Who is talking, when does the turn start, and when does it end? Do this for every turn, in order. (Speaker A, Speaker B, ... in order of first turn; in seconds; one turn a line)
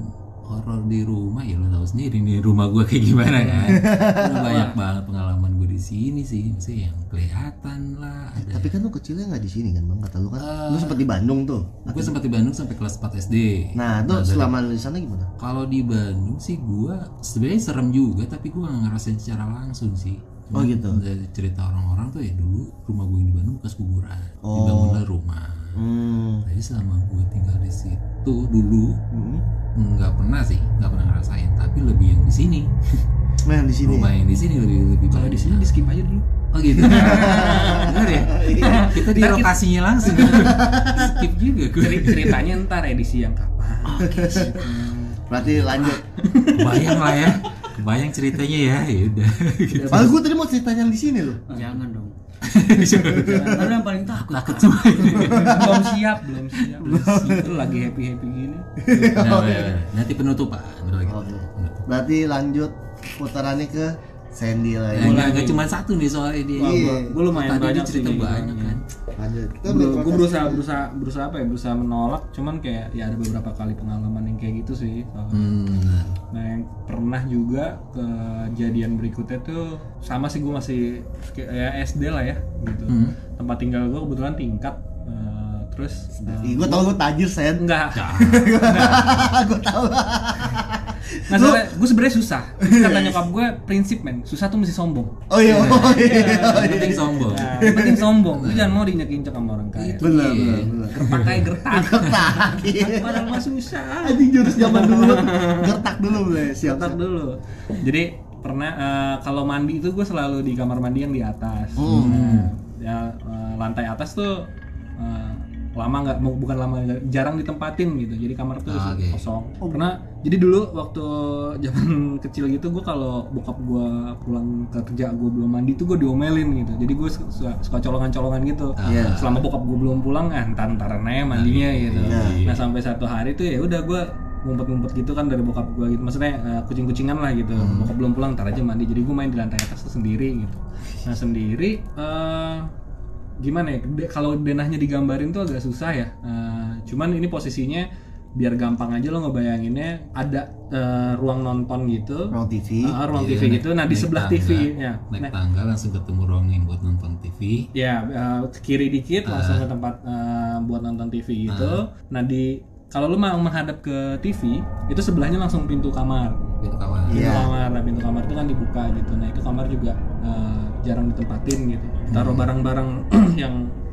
Speaker A: 0.5-8.7
Speaker B: 3.3-4.8
Speaker C: 3.7-4.3
Speaker C: 8.4-12.2
Speaker A: 10.4-11.0
Speaker A: 11.8-14.5
Speaker C: 13.7-15.3
Speaker A: 15.4-25.8
Speaker C: 20.5-21.0
Speaker C: 24.4-25.0
Speaker C: 25.7-26.5
Speaker A: 26.4-29.0
Speaker C: 29.1-29.4
Speaker A: 29.8-32.7
Speaker C: 33.4-34.1
Speaker A: 33.8-35.7
Speaker B: 35.1-36.2
Speaker A: 36.5-42.5
Speaker B: 36.8-40.6
Speaker C: 36.8-38.9
Speaker C: 40.2-41.3
Speaker B: 41.8-45.2
Speaker D: 43.9-44.6
Speaker C: 44.0-44.6
Speaker C: 45.3-46.0
Speaker A: 45.4-46.0
Speaker B: 45.8-47.3
Speaker A: 46.5-50.1
Speaker C: 49.8-51.4
Speaker D: 51.5-52.1
Speaker A: 52.4-55.8
Speaker C: 52.8-53.5
Speaker D: 53.3-55.2
Speaker C: 55.1-55.9
Speaker B: 55.1-58.7
Speaker C: 56.8-57.8
Speaker C: 58.8-59.7
Speaker A: 59.0-61.8
Speaker C: 61.0-65.3
Speaker A: 64.9-68.8
Speaker B: 64.9-65.7
Speaker C: 66.5-67.2
Speaker B: 66.6-68.8
Speaker C: 69.2-70.6
Speaker B: 69.7-75.4
Speaker A: 75.3-76.2
Speaker B: 76.3-87.0
Speaker A: 82.9-83.2
Speaker C: 86.1-91.7
Speaker B: 87.5-89.0
Speaker A: 87.9-89.4
Speaker B: 91.3-95.1
Speaker C: 92.6-93.2
Speaker C: 95.3-98.1
Speaker A: 95.4-97.5
Speaker B: 95.8-100.1
Speaker A: 98.3-98.9
Speaker A: 99.8-101.5
Speaker C: 100.0-103.4
Speaker B: 100.7-114.5
Speaker C: 104.0-107.0
Speaker C: 111.8-112.2
Speaker A: 111.8-112.5
Speaker B: 115.0-142.7
Speaker A: 118.7-119.2
Speaker A: 128.8-129.4
Speaker C: 128.8-129.2
Speaker A: 131.3-132.7
Speaker C: 132.1-132.4
Speaker C: 137.6-137.9
Speaker B: 143.4-147.8
Speaker B: 148.4-152.3
Speaker C: 152.3-153.0
Speaker B: 152.8-155.3
Speaker A: 153.1-157.7
Speaker B: 157.7-166.4
Speaker A: 159.2-159.7
Speaker A: 161.5-161.8
Speaker A: 166.6-167.3
Speaker C: 167.1-167.5
Speaker B: 167.1-173.6
Speaker A: 172.1-172.5